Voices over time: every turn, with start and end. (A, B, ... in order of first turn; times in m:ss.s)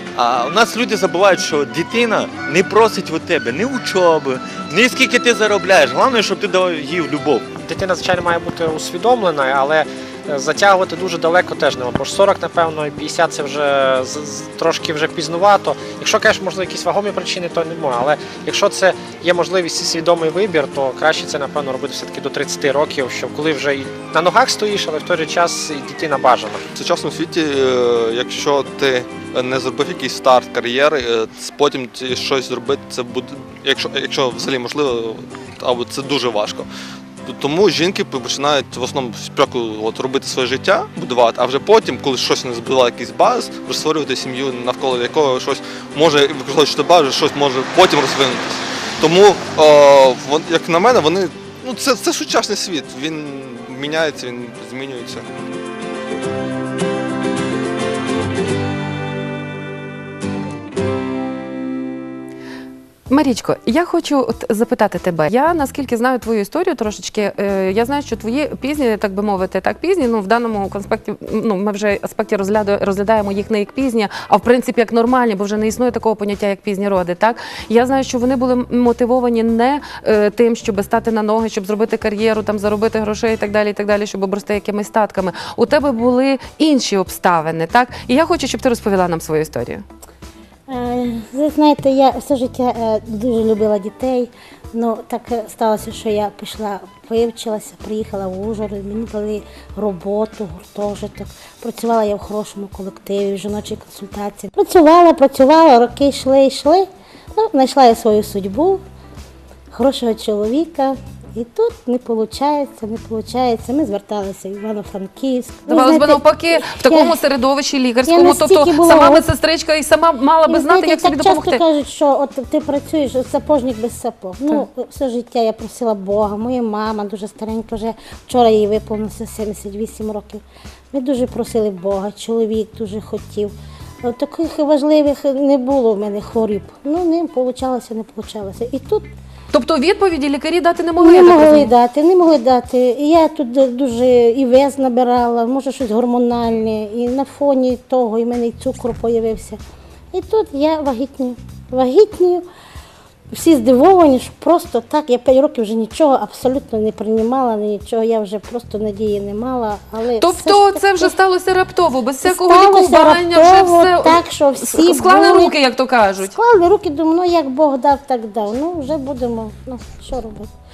0:00.2-0:07.5 A
0:07.6-0:26.6 B
0:26.7-0:36.7 C
0:37.2-0:55.2 C
1:03.1-1:29.8 D
1:30.7-1:48.8 E
1:49.7-1:57.2 E
1:55.7-2:01.6 D
1:58.0-1:59.2 E
2:00.5-2:19.1 E
2:19.5-2:21.7 D
2:21.0-2:29.6 E
2:30.1-2:32.4 E
2:33.3-2:41.1 E
2:40.2-2:46.3 D
2:42.2-2:45.5 E
2:46.2-2:50.5 E